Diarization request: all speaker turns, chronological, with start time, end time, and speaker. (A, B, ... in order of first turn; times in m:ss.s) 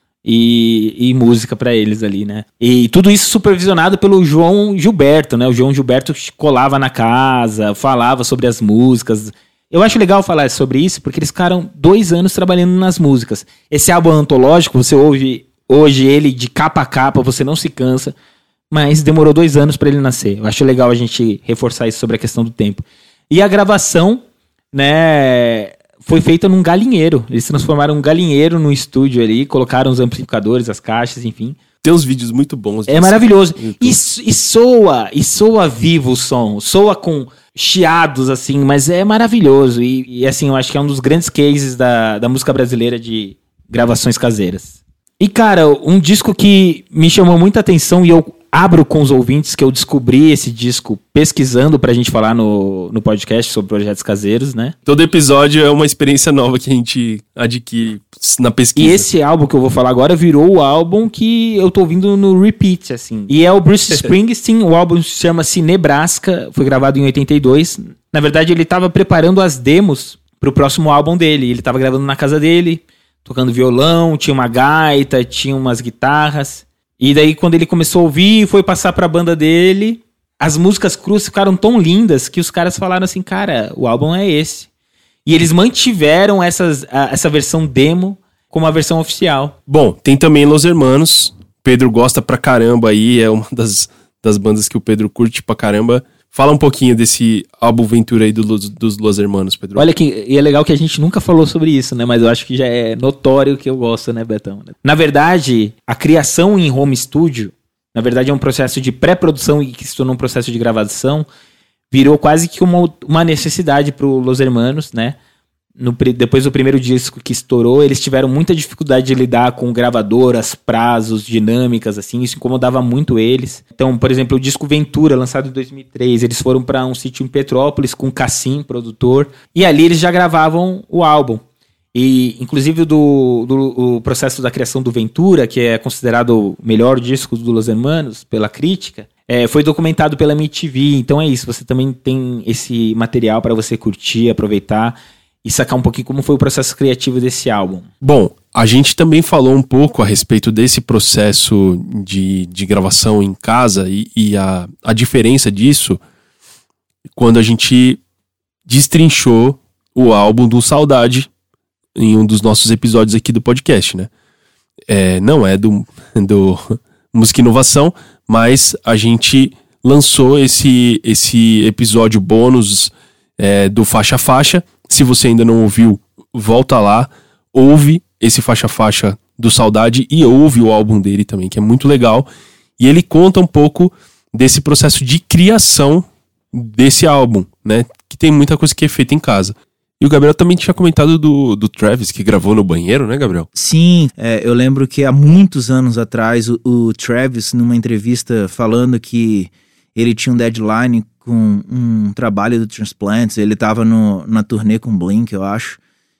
0:00.2-0:18.1 A
0:18.7-0:31.6 A
0:31.8-0:34.0 B
0:32.9-0:54.7 A
0:54.8-0:59.0 B
0:58.8-1:24.7 A
1:25.2-1:29.5 A
1:29.7-1:39.9 B
1:39.8-1:51.3 A
1:51.9-1:55.2 A
1:55.8-2:11.4 A
2:11.9-2:27.9 A
2:28.0-2:36.0 B
2:37.2-2:38.0 B
2:38.7-2:41.3 B
2:42.0-2:44.1 B
2:44.9-3:02.3 B
3:02.8-3:13.5 B
3:13.5-3:25.8 C